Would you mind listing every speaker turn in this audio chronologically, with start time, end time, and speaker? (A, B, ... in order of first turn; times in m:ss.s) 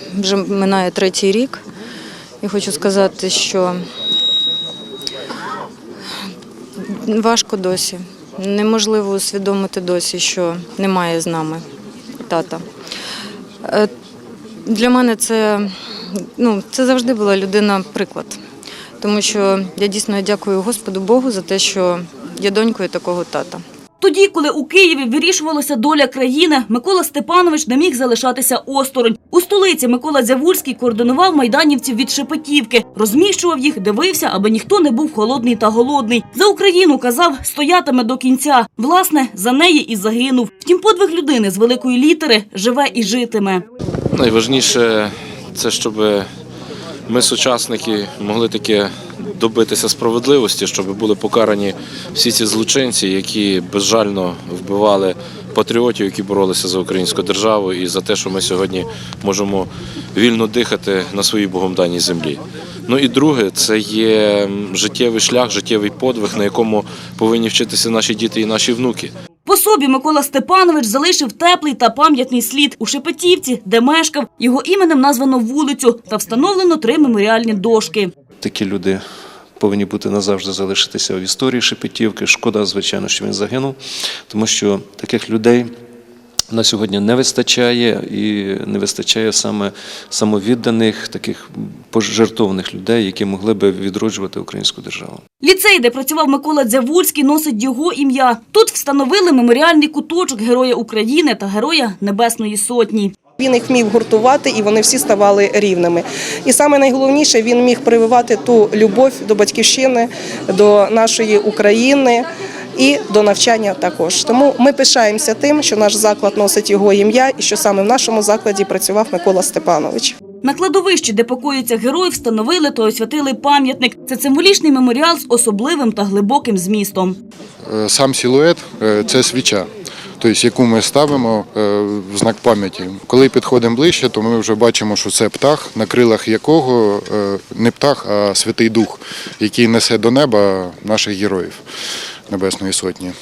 0:00.2-0:01.6 A
0:02.4-0:03.8 A
0:06.9-0:11.6 A
0:12.2-0:12.6 A
0:13.6-0:13.9 A
0:14.7-0:15.7 A
0:16.2-0:18.4 A
0:19.0-0:23.6 A
0:24.0-0:43.6 B
0:44.1-0:46.3 C
0:47.1-1:09.1 C
1:09.4-1:18.1 B
1:18.4-1:19.0 D
1:19.6-1:23.8 D
1:24.3-1:25.7 D
1:26.5-1:35.2 D
1:35.4-1:43.1 B
1:43.4-2:00.2 E
2:00.4-2:07.2 B
2:07.7-2:09.7 F
2:10.2-2:21.6 F
2:22.3-2:23.1 F